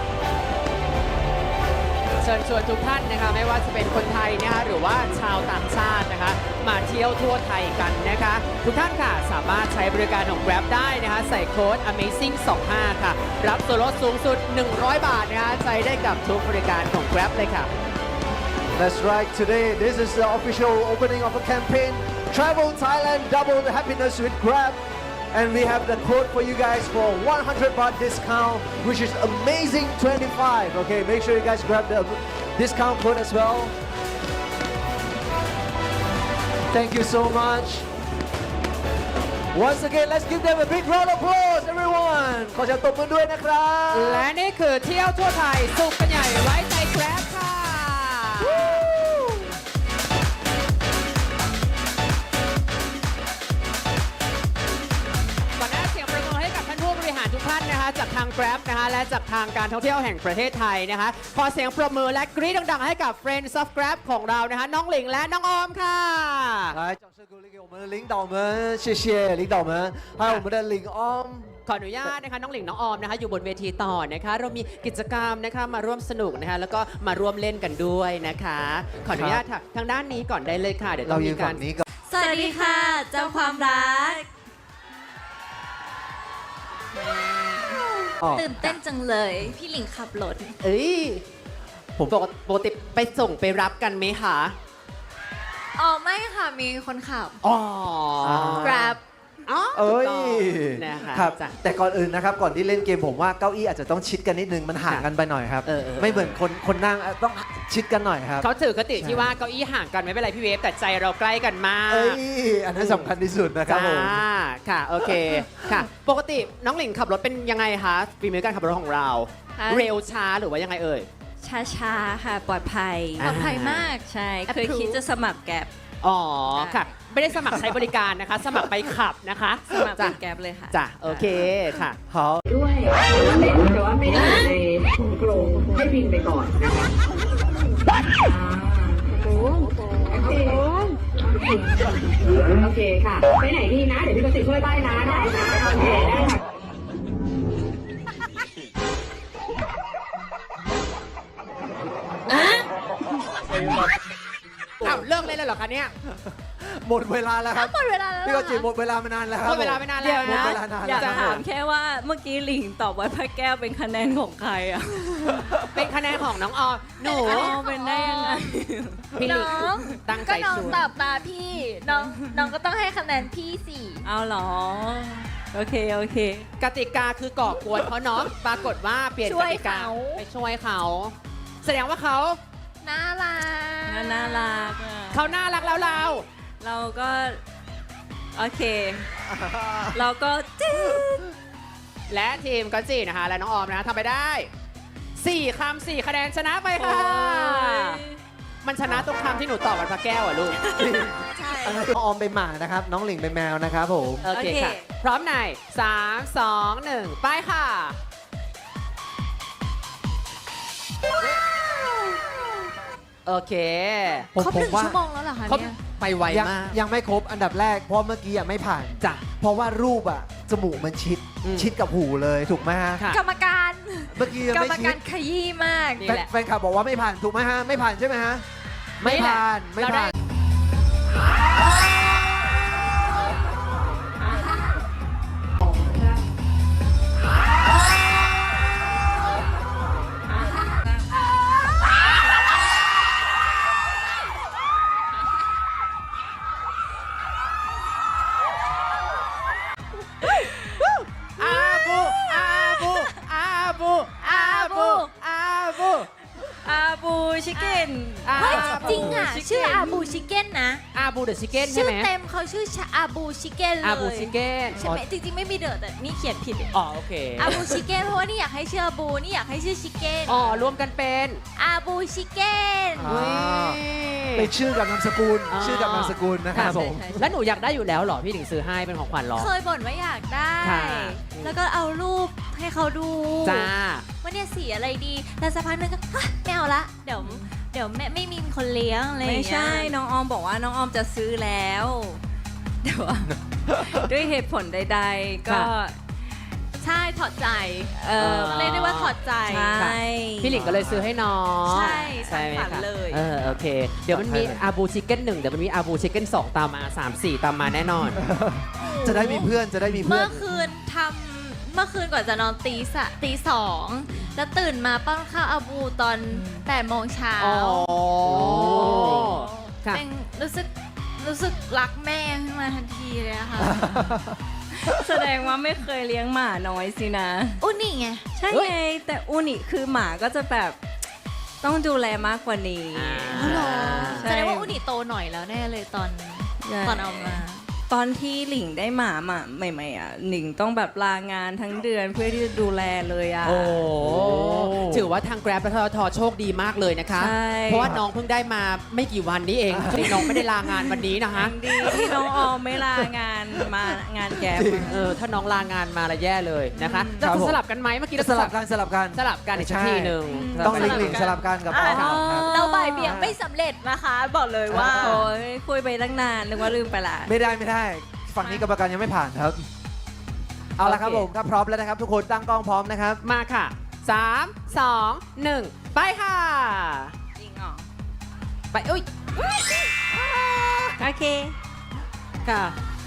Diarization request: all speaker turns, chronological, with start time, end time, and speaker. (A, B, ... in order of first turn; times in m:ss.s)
0:02.2-0:17.7 A
0:18.7-0:33.7 B
0:36.7-0:37.9 B
0:39.5-0:44.3 B
0:43.9-0:48.8 A
0:48.4-0:49.6 B
0:55.6-1:06.8 A
1:06.7-1:11.5 B
1:11.6-1:21.6 A
1:19.1-1:19.4 B
1:21.0-1:21.9 B
1:22.1-1:24.3 C
1:22.2-1:23.8 D
1:26.9-1:27.8 D
1:27.7-1:30.6 C
1:28.2-1:28.7 B
1:30.6-1:31.2 A
1:32.0-1:34.6 A
1:35.8-1:37.4 C
1:37.4-1:38.9 A
1:38.2-1:39.0 B
1:38.6-1:39.0 C
1:39.4-1:41.6 A
1:39.7-1:49.3 B
1:45.6-1:46.4 A
1:48.4-1:52.2 A
1:51.9-1:54.2 B
1:52.8-1:53.1 A
1:53.6-2:01.1 A
1:55.1-1:55.8 B
1:59.6-1:59.9 D
2:01.4-2:03.4 D
2:03.2-2:05.0 C
2:03.2-2:03.9 A
2:04.0-2:05.7 D
2:06.0-2:10.2 A
2:06.5-2:06.9 D
2:09.7-2:11.5 D
2:10.7-2:12.0 A
2:12.1-2:12.4 B
2:12.5-2:16.9 E
2:18.2-2:19.5 E
2:20.1-2:26.4 E
2:32.3-2:32.6 C
2:34.8-2:35.9 A
2:36.1-2:41.4 B
2:37.5-2:38.7 C
2:39.4-2:41.4 A
2:40.0-2:45.5 D
2:45.3-2:45.9 B
2:45.7-2:47.6 A
2:47.0-2:48.5 C
2:47.2-2:49.2 D
2:49.2-2:50.9 A
2:49.2-2:54.0 C
2:51.8-2:52.5 D
2:54.0-2:56.5 D
2:56.6-3:02.4 A
2:59.2-3:00.2 C
3:02.8-3:04.8 C
3:03.9-3:05.7 D
3:05.1-3:06.2 A
3:05.8-3:06.1 C
3:06.6-3:07.4 D
3:08.3-3:09.1 D
3:09.2-3:10.0 B
3:09.9-3:11.3 D
3:12.1-3:14.5 A
3:15.2-3:18.0 A
3:16.8-3:18.2 D
3:18.6-3:20.6 A
3:20.7-3:24.3 B
3:21.4-3:21.8 C
3:24.2-3:28.0 A
3:24.3-3:24.9 D
3:33.2-3:34.3 A
3:34.3-3:35.0 B
3:34.4-3:35.8 C
3:35.4-3:36.8 A
3:36.3-3:43.0 B
3:41.4-3:41.7 A
3:43.1-3:46.1 C
3:44.1-3:45.0 B
3:46.0-3:46.3 A
3:46.0-3:48.4 B
3:49.0-3:50.1 A
3:49.0-3:50.1 B
4:10.8-4:16.1 A
4:11.4-4:13.0 C
4:14.2-4:15.1 C
4:16.6-4:20.2 D
4:17.5-4:20.8 C
4:18.2-4:19.2 A
4:20.9-4:22.1 A
4:21.5-4:26.7 C
4:23.8-4:24.9 A
4:26.7-4:27.8 A
4:27.4-4:30.7 C
4:30.3-4:31.4 A
4:31.6-4:33.2 C
4:33.0-4:33.8 B
4:33.1-4:34.5 A
4:34.3-4:37.3 B
4:35.5-4:39.5 A
4:36.5-4:37.2 D
4:39.3-4:43.7 C
4:40.6-4:41.6 A
4:43.4-4:44.0 A
4:44.2-4:49.9 C
4:47.2-4:47.5 D
4:49.2-4:52.2 D
4:52.8-4:56.0 D
4:53.3-4:54.0 B
4:56.8-4:57.9 C
4:57.9-4:58.8 D
4:58.2-4:59.1 A
4:58.5-4:59.7 C
4:59.4-5:00.6 D
4:59.8-5:08.2 A
5:00.5-5:01.1 B
5:01.6-5:03.2 C
5:01.8-5:03.1 D
5:04.1-5:04.6 B
5:08.1-5:10.6 B
5:08.8-5:19.2 C
5:16.3-5:16.7 D
5:17.4-5:20.0 A
5:18.3-5:19.4 B
5:19.9-5:23.9 C
5:23.6-5:25.2 B
5:24.7-5:27.6 D
5:27.6-5:28.2 C
5:28.3-5:30.8 D
5:31.6-5:34.8 D
5:32.9-5:34.3 A
5:33.3-5:37.7 C
5:36.6-5:43.8 D
5:43.4-5:51.5 A
5:44.0-5:45.1 B
5:47.1-5:47.9 D
5:49.7-5:50.3 B
5:51.3-5:55.0 D
5:51.9-5:52.2 B
5:54.3-5:55.1 B
5:54.9-5:58.5 A
5:56.8-5:57.3 D
5:57.2-5:57.6 B
5:58.1-6:03.3 B
5:59.1-6:01.2 A
6:00.3-6:05.3 C
6:00.3-6:01.4 D
6:01.8-6:02.1 A
6:02.0-6:03.1 D
6:04.7-6:05.3 B
6:04.9-6:07.3 D
6:07.2-6:09.6 B
6:08.4-6:08.7 D
6:10.8-6:13.2 B
6:10.8-6:11.3 A
6:13.2-6:17.1 A
6:17.4-6:17.9 D
6:18.7-6:19.0 A
6:20.5-6:20.9 A
6:21.0-6:21.5 D
6:22.4-6:22.7 A